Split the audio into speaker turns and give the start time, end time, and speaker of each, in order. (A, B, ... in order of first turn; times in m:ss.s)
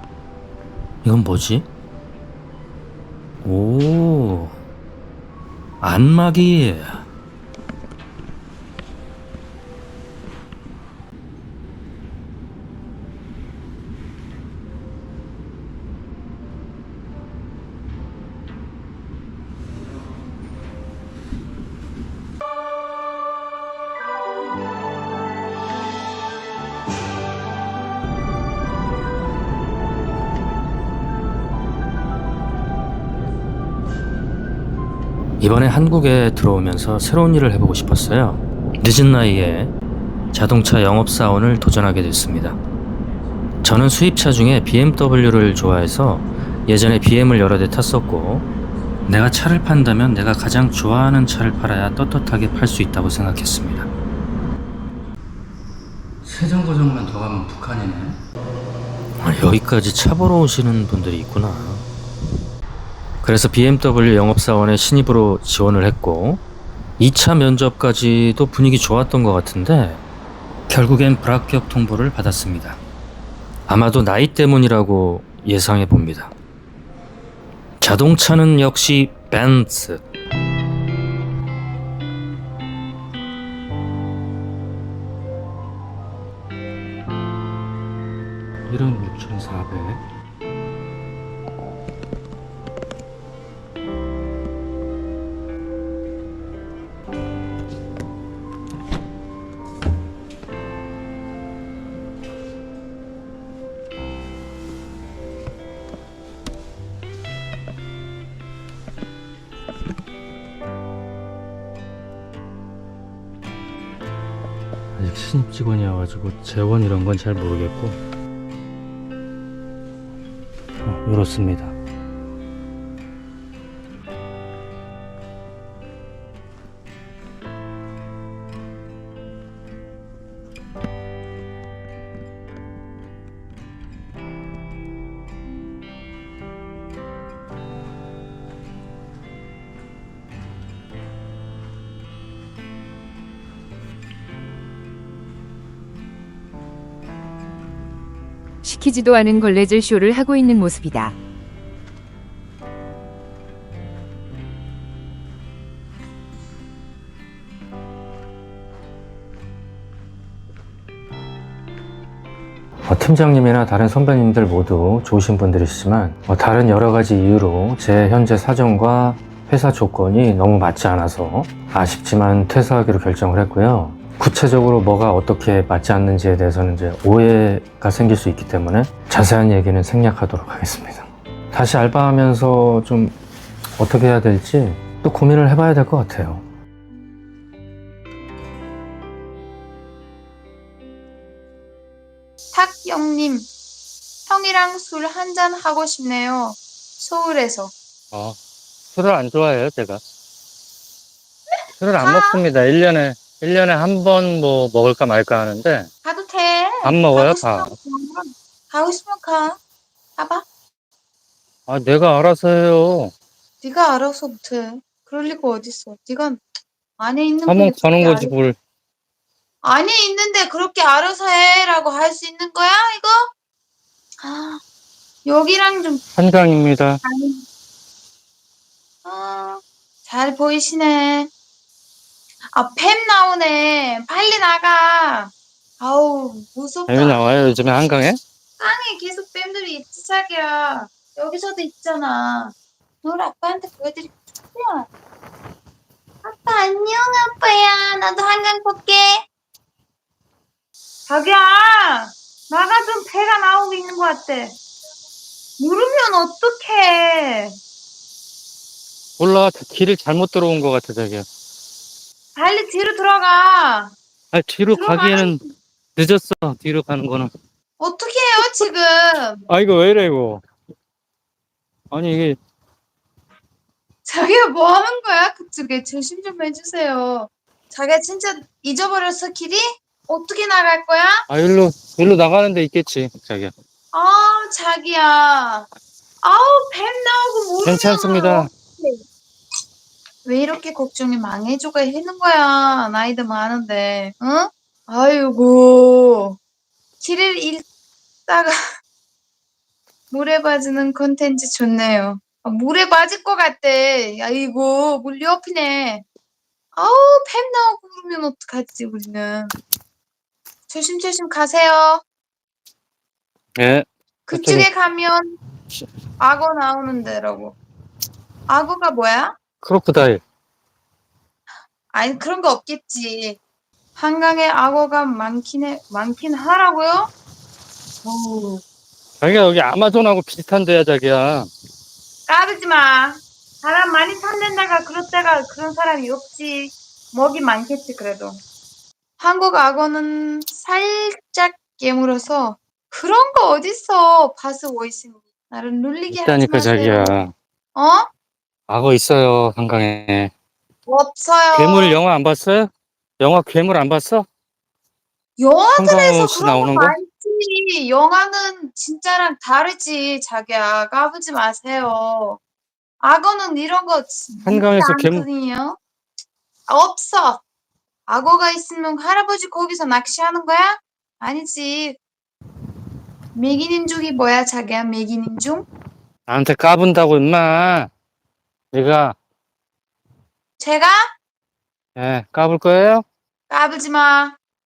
0:01.0-0:01.6 A
0:03.4-0:04.6 A
0:05.8-0:07.1 A
0:35.4-0:39.7 A
0:40.3-0:42.6 A
0:43.6-0:48.5 A
0:49.1-0:53.9 A
0:56.2-0:58.2 A
0:59.2-1:01.9 A
1:03.2-1:06.4 A
1:07.0-1:10.0 A
1:10.7-1:12.8 A
1:13.7-1:16.3 A
1:17.8-1:20.0 A
1:28.7-1:30.0 A
1:55.0-1:58.0 A
2:00.8-2:01.7 A
2:28.6-2:31.1 B
2:42.8-3:03.1 A
3:03.8-3:06.4 A
3:12.5-3:13.5 C
3:14.3-3:17.7 C
3:18.1-3:18.4 D
3:18.9-3:20.0 D
3:21.8-3:25.9 D
3:22.0-3:22.4 C
3:26.0-3:29.6 C
3:26.8-3:27.7 D
3:30.2-3:30.4 C
3:31.7-3:33.1 D
3:33.6-3:36.4 C
3:37.0-3:38.3 C
3:37.4-3:38.6 D
3:39.6-3:43.3 C
3:44.2-3:44.6 C
3:45.2-3:46.0 C
3:46.2-3:47.0 D
3:47.0-3:47.4 C
3:49.0-3:51.3 C
3:52.5-3:57.2 C
3:56.9-3:58.2 D
3:58.6-4:04.9 C
4:06.2-4:09.2 C
4:11.1-4:14.6 C
4:15.6-4:17.5 C
4:19.2-4:21.2 D
4:22.3-4:23.9 C
4:24.3-4:25.4 D
4:24.7-4:25.5 C
4:26.0-4:27.3 D
4:27.8-4:29.4 C
4:29.5-4:30.4 D
4:31.9-4:32.4 D
4:34.0-4:41.2 C
4:41.3-4:43.5 D
4:43.9-4:45.7 C
4:46.2-4:49.0 C
4:47.6-4:48.5 D
4:50.2-4:56.4 C
4:57.0-4:57.6 C
4:58.3-4:58.6 C
5:00.1-5:06.0 C
5:06.7-5:09.5 C
5:10.7-5:12.0 C
5:13.6-5:14.7 D
5:14.3-5:15.4 C
5:16.2-5:17.6 C
5:18.5-5:19.4 C
5:19.6-5:20.2 D
5:21.9-5:23.4 C
5:23.9-5:27.1 C
5:28.0-5:28.6 C
5:29.2-5:31.5 D
5:32.3-5:38.4 C
5:39.2-5:47.2 C
5:46.1-5:47.3 D
5:47.7-5:48.1 C
5:48.7-5:50.3 D
5:50.8-5:52.0 C
5:51.5-5:52.7 D
5:53.2-5:54.2 D
5:55.4-6:02.4 C
5:55.8-5:56.9 D
6:03.0-6:05.8 C
6:04.4-6:05.2 D
6:06.7-6:07.4 C
6:08.1-6:12.0 C
6:13.3-6:15.6 C
6:16.3-6:17.9 D
6:18.7-6:19.1 D
6:20.6-6:21.1 C
6:22.0-6:23.0 D
6:23.5-6:24.4 C